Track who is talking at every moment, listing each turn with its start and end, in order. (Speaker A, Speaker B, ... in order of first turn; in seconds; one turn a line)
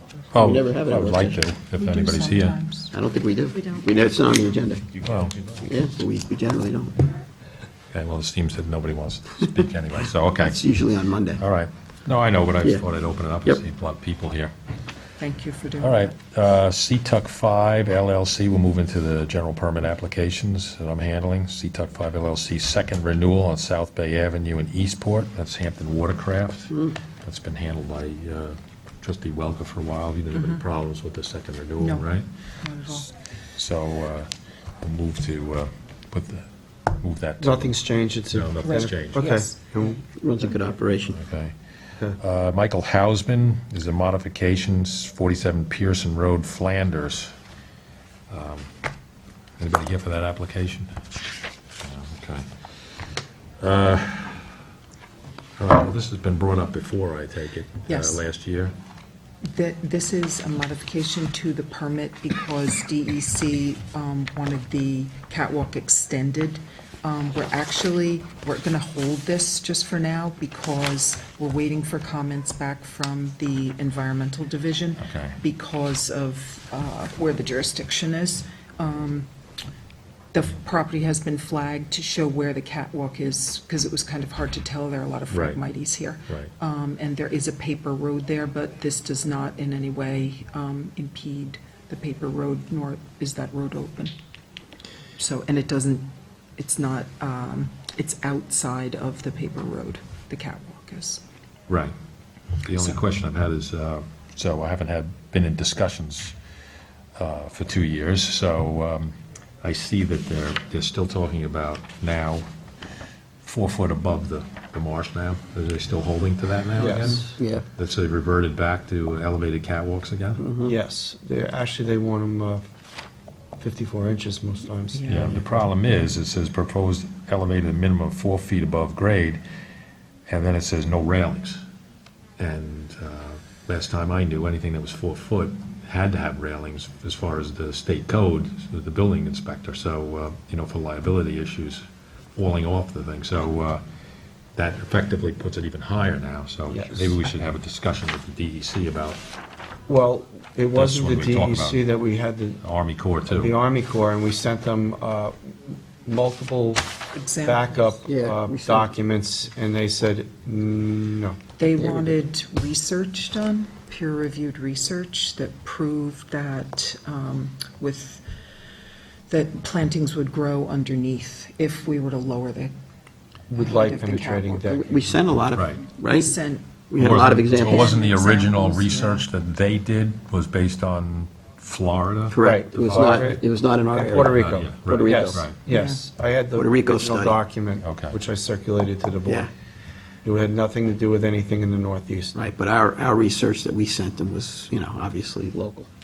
Speaker A: 0.3-2.6
Speaker B: 0.3-1.4
Speaker C: 1.8-2.9
Speaker B: 2.9-5.0
Speaker A: 5.0-5.6
Speaker B: 5.6-7.1
Speaker A: 7.9-10.8
Speaker B: 10.4-11.4
Speaker A: 11.4-14.5
Speaker C: 15.2-16.1
Speaker A: 15.8-32.3
Speaker C: 30.4-30.6
Speaker C: 31.8-33.1
Speaker A: 32.9-37.7
Speaker D: 37.4-40.0
Speaker A: 38.3-39.3
Speaker C: 38.6-40.0
Speaker B: 40.2-41.2
Speaker A: 41.1-41.5
Speaker A: 42.2-47.3
Speaker A: 48.3-48.7
Speaker A: 49.6-50.9
Speaker A: 51.8-54.5
Speaker A: 55.6-58.7
Speaker C: 57.9-58.2
Speaker C: 59.4-79.3
Speaker A: 75.0-75.4
Speaker C: 80.3-94.1
Speaker A: 85.3-85.6
Speaker C: 95.2-101.2
Speaker A: 102.6-106.3
Speaker A: 107.2-112.5
Speaker A: 113.4-120.4
Speaker D: 116.8-117.3
Speaker B: 117.3-117.7
Speaker B: 120.4-120.7
Speaker D: 120.6-122.7
Speaker D: 123.6-125.4
Speaker C: 124.9-125.4
Speaker A: 125.1-129.4
Speaker A: 130.3-131.6
Speaker A: 132.4-141.8
Speaker A: 142.3-143.8
Speaker A: 144.6-149.2
Speaker D: 146.7-147.2
Speaker D: 149.9-152.6
Speaker A: 150.8-151.9
Speaker A: 152.6-153.6
Speaker D: 153.3-161.4
Speaker C: 157.1-158.0
Speaker B: 158.1-158.9
Speaker C: 161.6-168.2
Speaker C: 169.3-172.7
Speaker D: 173.5-175.2
Speaker C: 173.5-174.6
Speaker B: 174.7-176.3
Speaker A: 175.5-175.8
Speaker C: 176.1-176.7
Speaker B: 176.9-177.9
Speaker A: 177.0-183.4
Speaker C: 177.5-179.2
Speaker B: 182.3-185.5
Speaker D: 182.4-189.5
Speaker A: 184.1-185.6
Speaker C: 185.7-186.0
Speaker B: 186.5-187.4
Speaker A: 187.8-188.2
Speaker D: 190.2-192.4
Speaker B: 192.3-195.9